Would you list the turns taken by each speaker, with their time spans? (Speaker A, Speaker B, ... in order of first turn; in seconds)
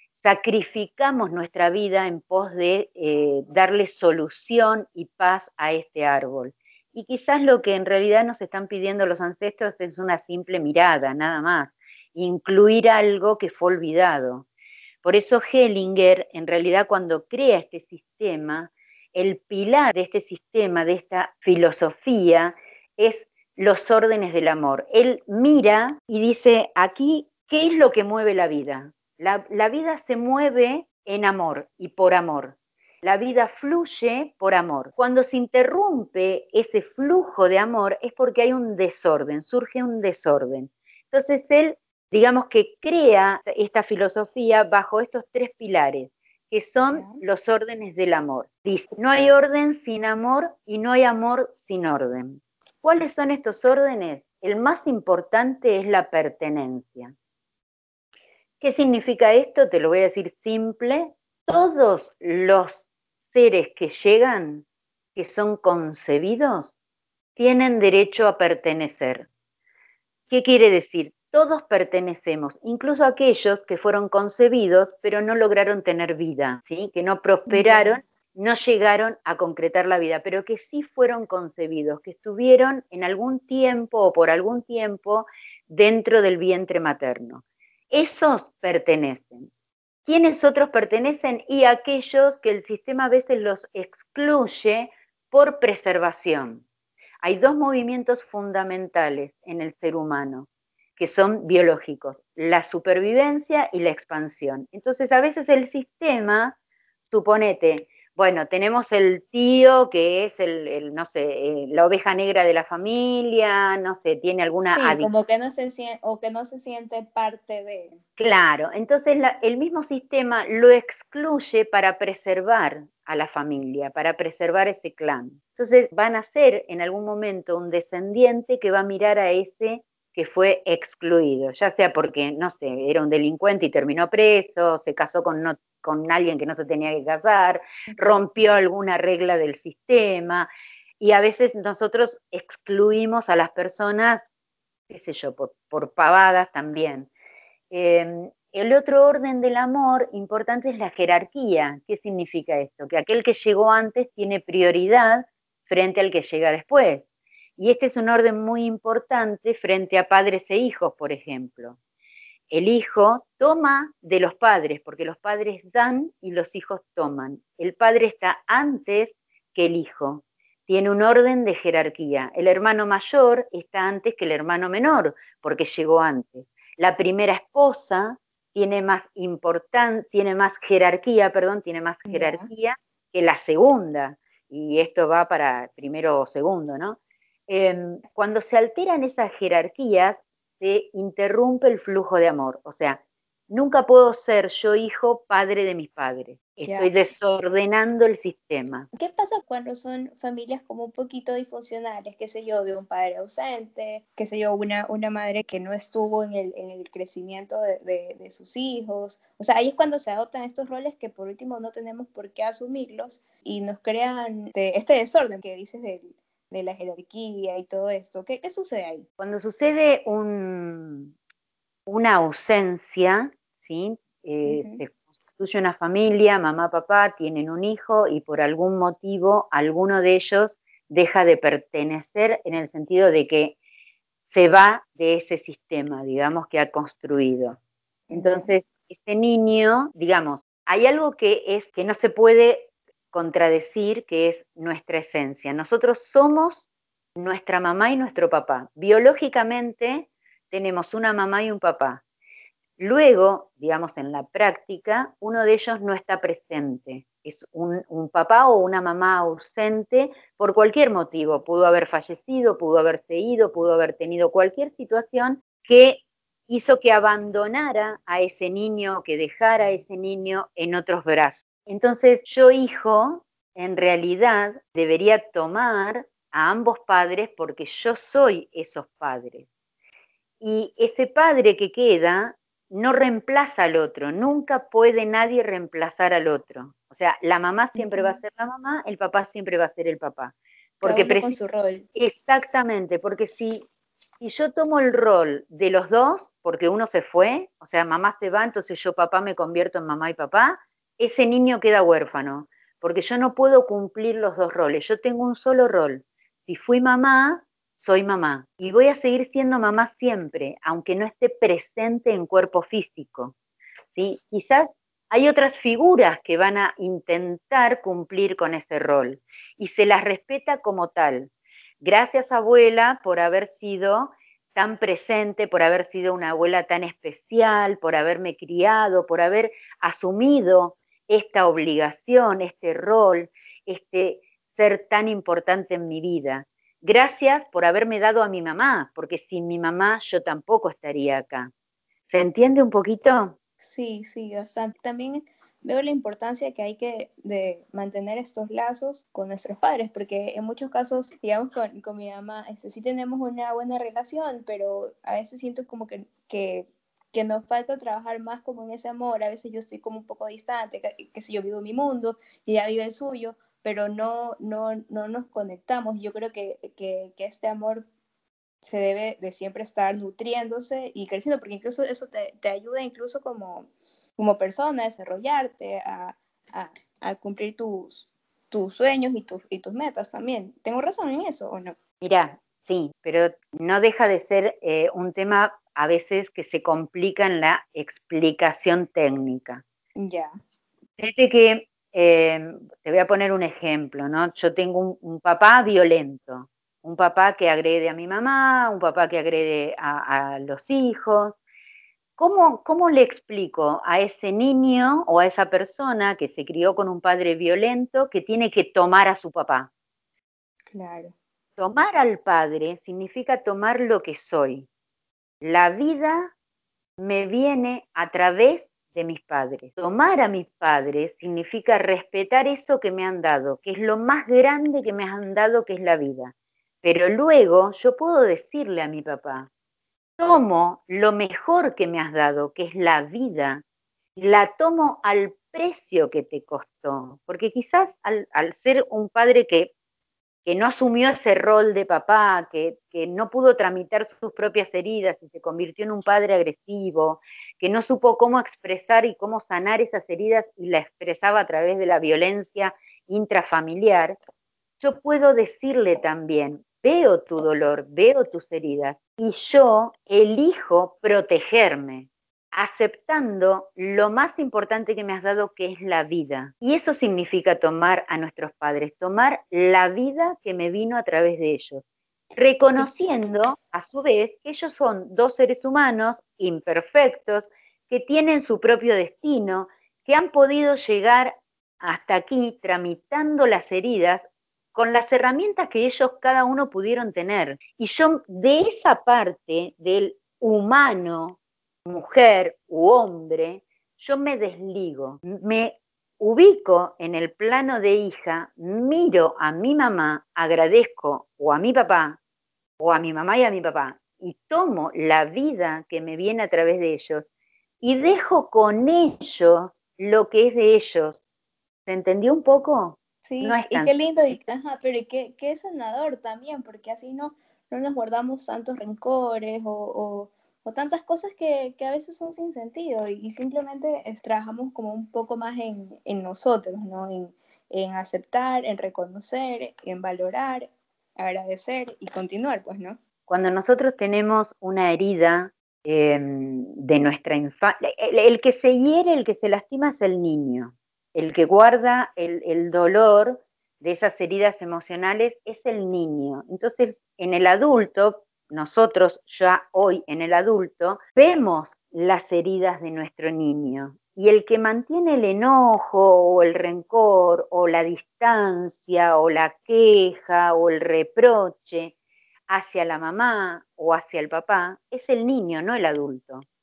Speaker A: 0.1-14.5, 15.0-57.1, 58.6-66.7, 67.3-69.3, 70.3-89.5, 90.0-96.6, 97.2-106.5, 107.1-115.1, 118.2-140.5, 141.0-144.2, 144.9-147.1, 147.7-157.1, 157.6-161.8, 162.5-198.9, 219.2-221.1, 221.9-233.6, 234.3-237.6, 238.1-252.0, 252.8-279.5, 280.4-291.4, 291.9-293.7, 294.2-313.3, 313.9-321.3, 321.8-341.5, 342.1-343.4, 382.0-389.6, 391.0-401.4, 402.2-409.7, 411.6-414.7, 415.4-416.3, 417.0-429.5, 430.2-433.6, 434.1-439.7, 440.4-454.1, 454.8-471.8, 472.4-502.2, 502.8-507.3, 507.8-511.2, 511.9-513.9, 533.3-561.9, 562.5-566.5
Speaker B: 46.9-47.2, 77.5-78.0, 114.6-118.0, 182.1-182.4, 196.6-196.9, 198.9-219.0, 224.4-224.8, 238.1-238.5, 287.8-288.2, 290.8-291.9, 343.6-367.9, 368.6-381.7, 389.9-390.3, 410.7-411.1, 513.2-533.0